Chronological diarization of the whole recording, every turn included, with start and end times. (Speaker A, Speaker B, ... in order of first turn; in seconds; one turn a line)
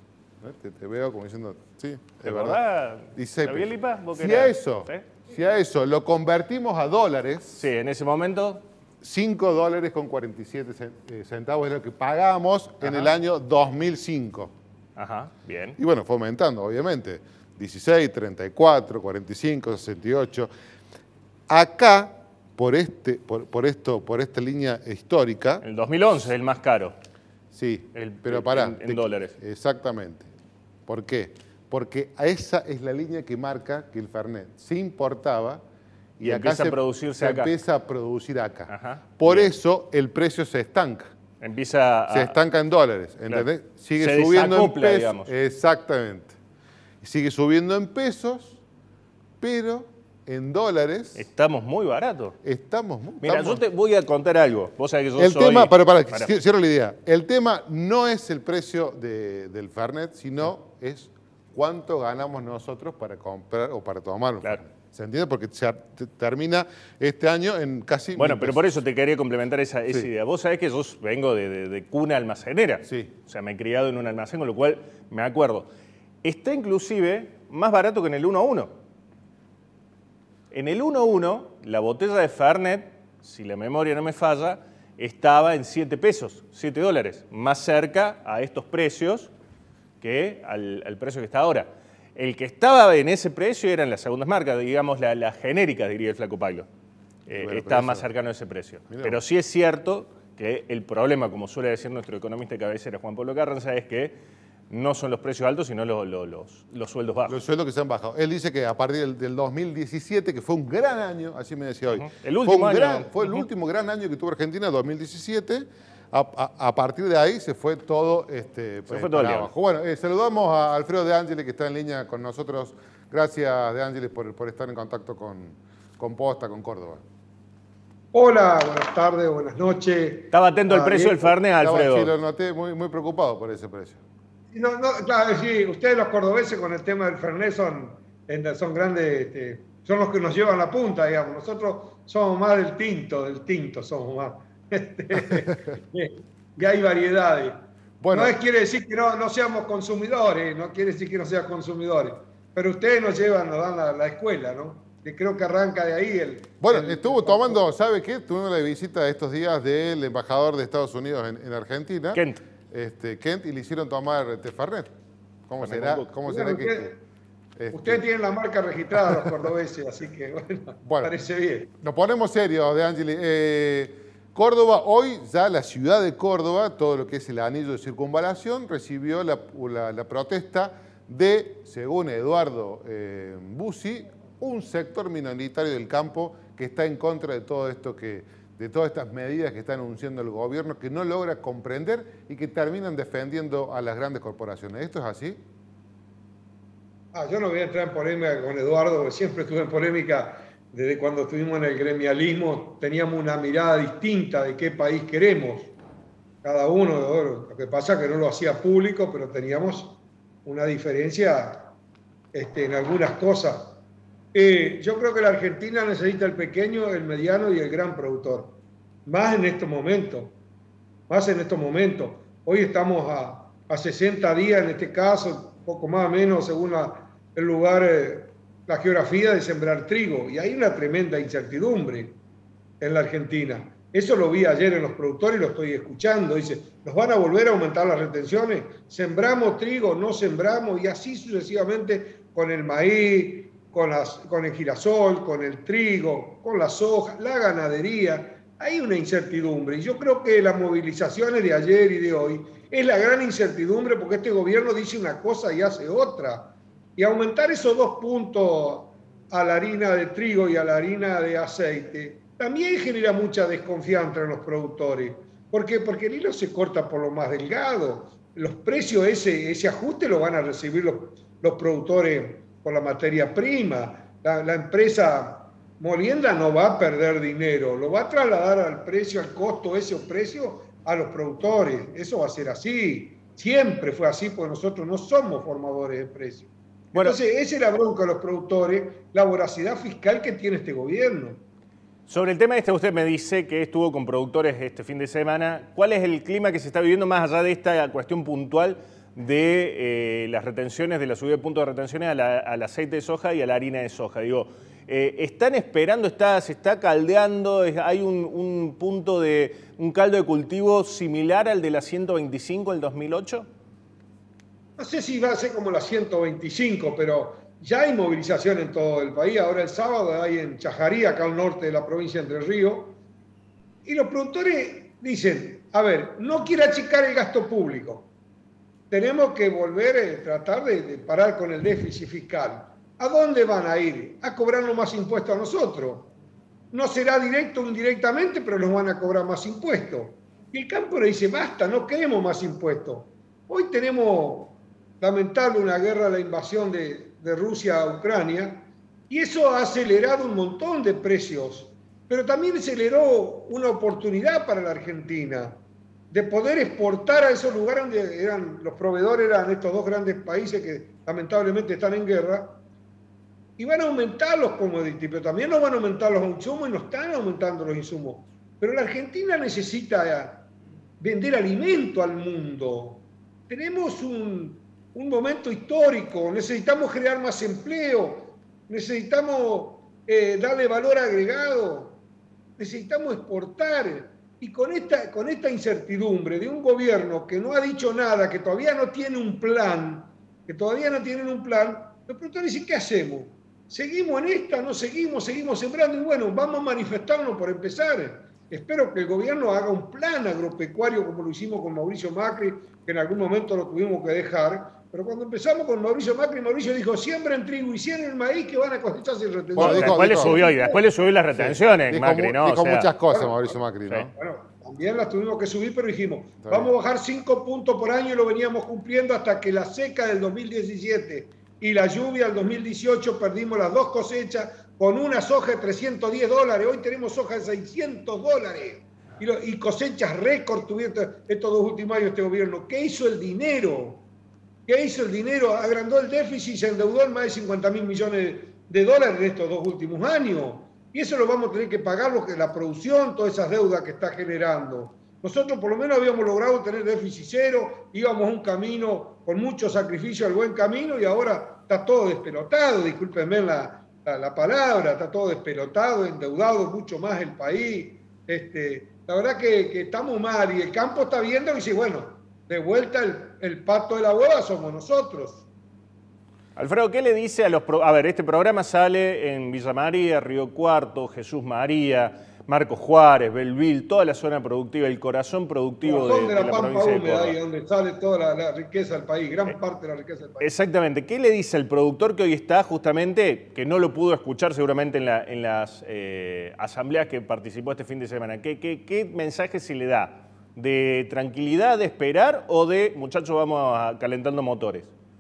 Speaker A: 0.4-2.6
Speaker B: 2.2-5.0
Speaker A: 3.1-7.7
Speaker B: 7.6-8.6
Speaker A: 9.0-14.5
Speaker B: 12.8-13.1
Speaker B: 15.0-15.8
Speaker A: 15.8-20.5
Speaker A: 21.5-25.6
Speaker B: 25.6-26.9
Speaker A: 27.5-30.3
Speaker B: 27.9-29.4
Speaker A: 30.9-35.6
Speaker A: 36.2-41.1
Speaker B: 36.2-37.5
Speaker B: 38.7-39.5
Speaker B: 41.4-42.4
Speaker A: 42.1-46.4
Speaker B: 44.0-45.3
Speaker A: 47.0-48.6
Speaker A: 49.4-51.3
Speaker B: 51.2-52.4
Speaker A: 52.4-53.6
Speaker B: 53.2-56.3
Speaker A: 55.2-68.8
Speaker B: 68.2-75.7
Speaker A: 72.9-73.1
Speaker B: 76.2-78.7
Speaker B: 80.5-89.3
Speaker B: 90.0-96.7
Speaker B: 97.3-104.2
Speaker A: 97.3-98.1
Speaker A: 98.9-99.2
Speaker B: 104.7-107.4
Speaker A: 107.3-127.0
Speaker B: 111.9-113.5
Speaker B: 118.9-119.5
Speaker C: 128.1-131.3
Speaker B: 130.3-132.1
Speaker A: 131.6-134.0
Speaker C: 134.5-147.5
Speaker A: 148.0-148.3
Speaker C: 148.1-157.6
Speaker A: 156.6-164.9
Speaker B: 162.2-162.4
Speaker A: 165.5-166.9
Speaker B: 165.6-166.1
Speaker C: 166.3-167.0
Speaker A: 167.6-168.0
Speaker C: 167.7-171.7
Speaker A: 170.8-171.1
Speaker A: 171.8-195.4
Speaker C: 197.1-205.8
Speaker C: 206.4-211.7
Speaker C: 212.3-213.8
Speaker C: 214.3-220.3
Speaker C: 221.1-232.2
Speaker C: 232.8-291.4
Speaker B: 292.1-313.5
Speaker C: 314.8-323.0
Speaker C: 323.9-328.1
Speaker C: 328.9-336.1
Speaker C: 336.7-355.6
Speaker C: 356.1-362.6
Speaker C: 363.6-370.5
Speaker C: 371.0-382.0
Speaker C: 382.6-410.8
Speaker A: 409.6-410.4
Speaker B: 409.6-412.9
Speaker A: 411.3-414.1
Speaker C: 413.1-413.6
Speaker C: 414.1-434.1
Speaker A: 416.4-416.7
Speaker C: 434.7-465.5
Speaker B: 466.6-477.4
Speaker C: 475.8-480.5
Speaker B: 480.4-494.9